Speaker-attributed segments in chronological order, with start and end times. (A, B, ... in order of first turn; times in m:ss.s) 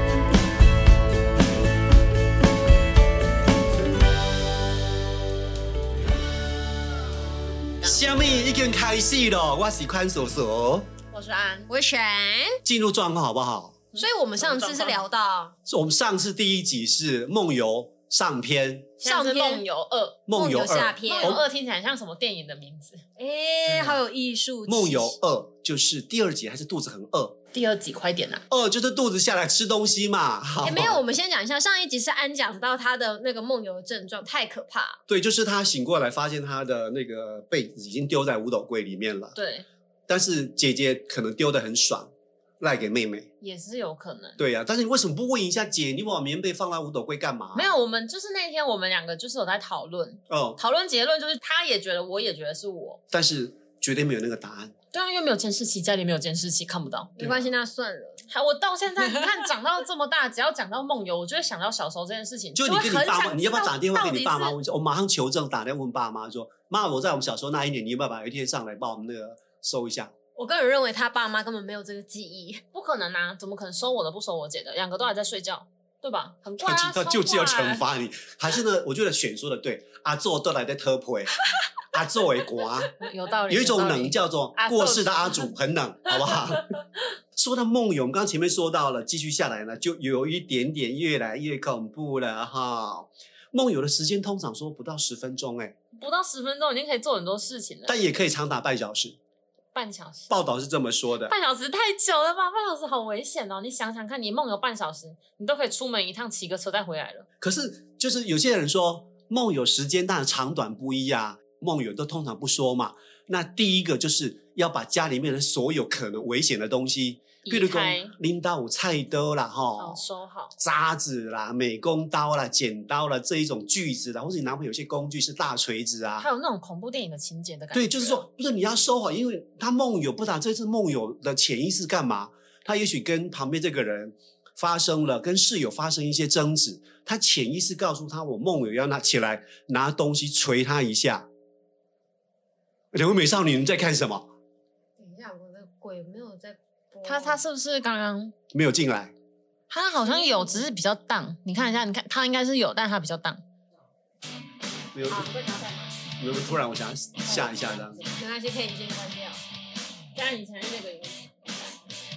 0:07.8-0:08.4 A
0:07.8-0:10.9 B
0:11.1-0:11.7 A
0:11.7-0:12.6 C
0:12.6-0:13.9 B
0:13.9-0:15.0 A
0:14.0-0:15.6 C
0:15.7-0:19.0 B
0:19.0-0:20.2 A
0:19.0-0:19.6 C
0:20.3-0:21.4 B
0:20.3-0:21.4 C
0:21.0-0:23.0 A
0:23.2-0:25.2 C
0:23.6-0:24.0 B
0:24.6-0:27.4 B
0:27.5-0:28.4 A
0:28.5-0:31.0 B
0:30.6-0:35.0 C
0:35.1-0:39.4 B
0:39.3-0:39.7 A
0:40.1-0:43.3 B
0:43.4-0:44.4 A
0:44.4-0:47.7 B
0:47.5-0:53.0 A
0:50.3-0:50.6 B
0:53.1-0:54.7 B
0:54.9-0:57.1 A
0:57.2-0:58.2 C
0:57.2-0:57.5 B
0:58.3-1:04.5 A
1:02.5-1:10.1 B
1:10.4-1:12.6 C
1:12.7-1:17.8 A
1:16.6-1:21.4 B
1:21.9-1:23.0 B
1:23.0-1:25.5 A
1:23.5-1:26.7 B
1:27.3-1:35.8 B
1:35.9-1:38.0 A
1:37.9-1:39.2 B
1:39.7-1:40.3 A
1:40.3-1:41.3 B
1:41.2-1:47.2 A
1:47.4-2:00.0 B
1:57.4-1:58.1 A
1:59.8-2:00.6 A
2:00.6-2:06.3 B
2:06.2-2:08.2 A
2:07.7-2:21.3 B
2:22.9-2:24.3 B
2:25.0-2:27.4 C
2:27.0-2:28.3 A
2:28.5-2:29.1 B
2:29.7-2:33.4 A
2:30.0-2:30.6 C
2:34.9-2:35.3 B
2:35.1-2:35.9 A
2:36.2-2:38.0 B
2:37.2-2:38.1 A
2:38.1-2:39.4 C
2:40.1-2:41.8 A